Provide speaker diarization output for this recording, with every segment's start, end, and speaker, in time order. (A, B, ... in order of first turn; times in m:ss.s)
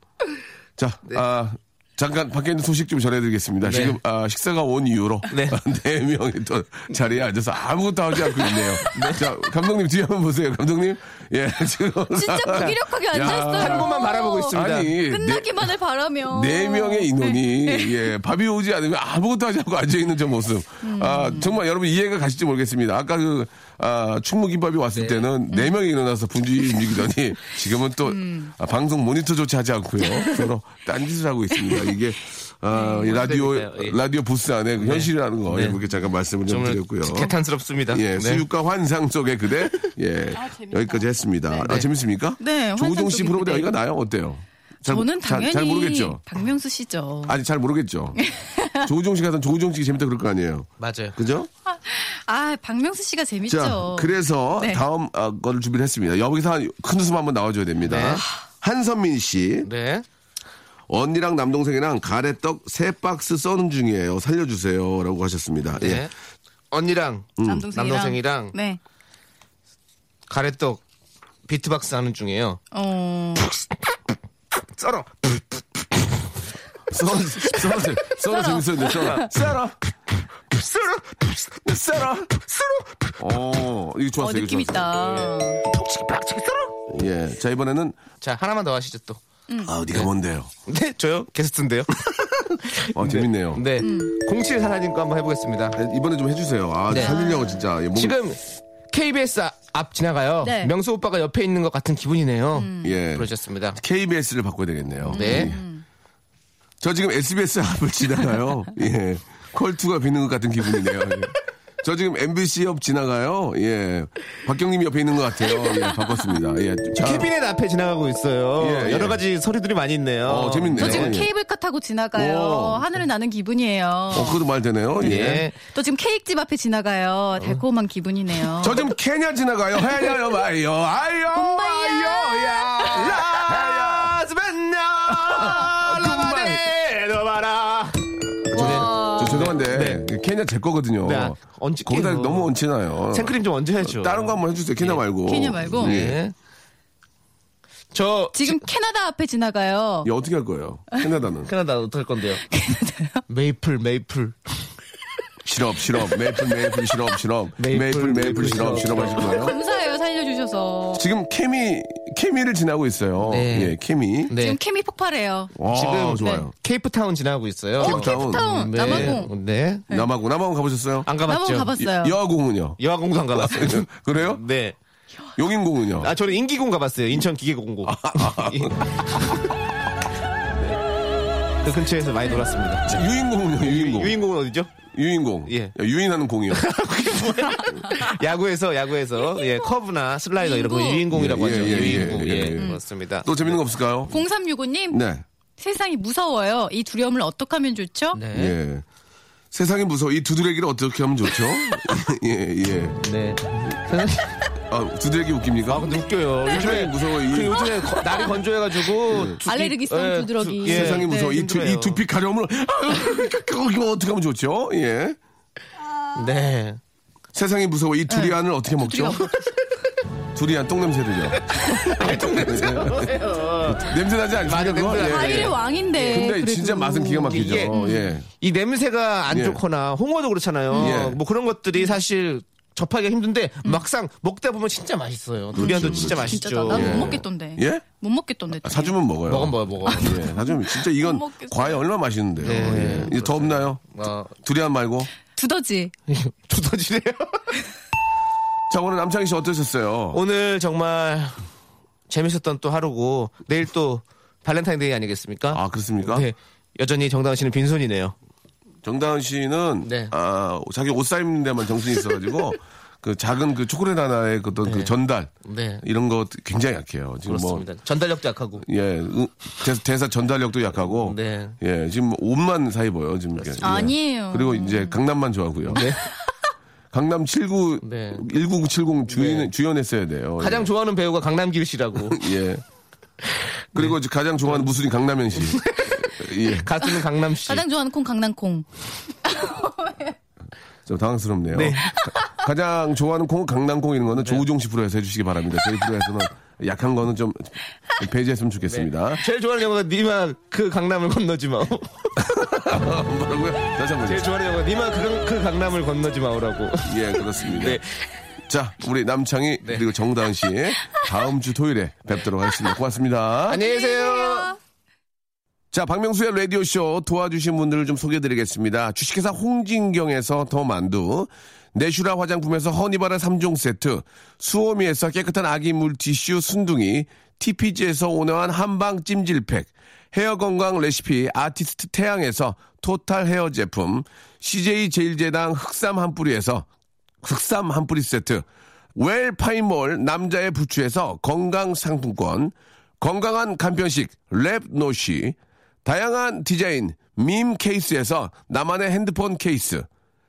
0:00.8-0:15.7 A
0:03.6-0:04.0 B
0:05.3-0:05.6 B
0:08.9-0:09.3 B
0:12.2-0:18.1 C
0:13.2-0:15.0 B
0:16.3-0:37.3 A
0:20.8-0:21.6 C
0:24.9-0:25.3 B
0:28.1-0:28.5 C
0:32.7-0:33.2 C
0:33.0-0:34.0 B
0:34.8-0:35.8 B
0:36.5-0:38.5 B
0:37.9-0:46.2 A
0:40.3-0:41.7 C
0:41.6-0:41.9 B
0:42.4-0:43.7 C
0:44.8-0:47.4 C
0:47.3-0:48.2 A
0:48.2-0:48.9 C
0:48.8-0:51.5 A
0:50.8-0:51.2 B
0:51.7-0:54.8 C
0:53.5-0:59.7 A
0:57.8-0:58.2 B
0:59.6-1:00.0 B
1:00.9-1:06.1 A
1:05.8-1:06.1 B
1:06.7-1:08.6 B
1:07.4-1:07.7 A
1:07.4-1:08.8 C
1:10.3-1:10.8 B
1:11.5-1:12.6 B
1:12.7-1:13.5 C
1:14.6-1:15.6 B
1:16.9-1:19.8 A
1:18.3-1:19.3 C
1:20.5-1:23.2 B
1:21.7-1:22.3 A
1:23.2-1:25.0 A
1:24.2-1:25.6 C
1:25.0-1:26.8 B
1:26.9-1:28.0 A
1:28.2-1:29.2 B
1:29.5-1:29.8 C
1:29.6-1:30.5 A
1:30.7-1:35.8 B
1:33.0-1:33.6 A
1:33.8-1:34.1 C
1:35.8-1:38.2 A
1:36.9-1:37.2 B
1:36.9-1:37.7 C
1:37.9-1:43.8 B
1:40.4-1:40.7 C
1:42.6-1:43.0 C
1:42.8-1:45.6 A
1:45.1-1:45.6 B
1:45.1-1:45.8 C
1:46.8-1:57.3 A
1:55.6-1:56.2 C
1:56.9-2:01.2 B
1:58.6-1:59.2 A
2:00.2-2:01.3 A
2:00.8-2:04.4 C
2:02.2-2:02.8 A
2:04.1-2:05.5 A
2:05.0-2:05.6 B
2:05.0-2:08.8 C
2:08.6-2:14.2 A
2:11.3-2:13.2 C
2:12.9-2:20.1 B
2:15.2-2:16.7 A
2:18.4-2:26.2 A
2:18.5-2:19.5 C
2:21.0-2:22.5 B
2:23.1-2:25.0 B
2:25.3-2:26.0 C
2:25.8-2:26.3 B
2:27.9-2:28.6 B
2:28.4-2:30.1 C
2:30.0-2:31.5 A
2:31.5-2:32.4 B
2:32.5-2:33.2 C
2:33.3-2:34.7 B
2:35.4-2:39.6 A
2:37.6-2:39.5 B
2:39.1-2:41.1 C
2:41.0-2:44.3 A
2:43.3-2:43.8 B
2:44.3-2:44.6 B
2:44.3-2:45.6 C
2:45.6-2:46.5 A
2:45.7-2:49.8 B
2:46.2-2:46.5 C
2:47.8-2:49.3 A
2:47.8-2:49.3 C
2:49.9-2:51.1 A
2:51.1-2:51.7 B
2:51.3-2:52.2 C
2:51.8-2:52.8 A
2:52.8-2:54.8 B
2:53.3-2:54.4 A
2:55.4-2:56.1 A
2:56.0-2:59.4 B
2:57.8-2:59.0 A
3:01.6-3:03.1 B
3:02.9-3:04.2 A
3:03.6-3:04.7 B
3:04.9-3:06.7 A
3:05.5-3:05.8 B
3:06.5-3:13.6 B
3:09.2-3:09.7 C
3:10.4-3:11.1 C
3:11.1-3:14.1 A
3:14.1-3:15.0 C
3:14.9-3:15.2 A
3:15.6-3:18.2 C
3:18.1-3:18.6 B
3:18.3-3:18.8 A
3:19.5-3:23.0 A
3:23.0-3:24.5 B
3:24.7-3:27.7 A
3:25.7-3:32.0 B
3:27.9-3:28.3 C
3:29.1-3:29.4 A
3:29.4-3:31.4 C
3:30.6-3:35.2 A
3:36.2-3:36.8 B
3:37.3-3:39.3 A
3:38.1-3:39.4 C
3:40.3-3:48.3 A
3:41.5-3:46.3 B
3:45.0-3:48.1 C
3:47.3-3:47.8 B
3:48.4-3:57.2 B
3:49.3-3:49.6 A
3:50.7-3:51.0 C
3:50.8-3:51.2 A
3:55.5-3:57.9 A
3:55.6-3:59.0 C
3:58.6-4:03.8 A
3:59.3-4:00.3 B
3:59.9-4:01.8 C
4:02.4-4:04.3 B
4:04.3-4:05.1 A
4:05.4-4:05.9 C
4:06.1-4:07.6 B
4:08.7-4:10.2 A
4:10.1-4:11.4 B
4:12.1-4:18.2 B
4:15.5-4:16.3 A
4:18.8-4:27.7 A
4:19.8-4:20.1 B
4:24.6-4:24.9 B
4:25.4-4:25.8 B
4:27.3-4:28.6 B
4:28.6-4:35.8 A
4:31.0-4:31.6 B
4:33.4-4:33.9 B
4:33.6-4:35.0 C
4:35.7-4:36.0 B
4:36.9-4:40.7 A
4:37.8-4:38.2 B
4:39.1-4:39.5 B
4:40.4-4:42.3 B
4:42.0-4:42.6 A
4:43.3-4:44.6 B
4:43.7-4:46.7 A
4:45.4-4:47.6 B
4:47.5-4:48.7 C
4:49.2-4:50.2 C
4:50.9-4:59.2 A
4:51.5-4:52.1 B
4:54.2-4:54.5 B
4:58.7-5:02.2 B
5:02.2-5:04.3 A
5:04.0-5:07.9 B
5:06.9-5:07.8 A
5:08.5-5:13.6 A
5:13.5-5:14.5 B
5:13.5-5:14.6 C
5:15.7-5:36.7 A
5:37.2-5:49.9 A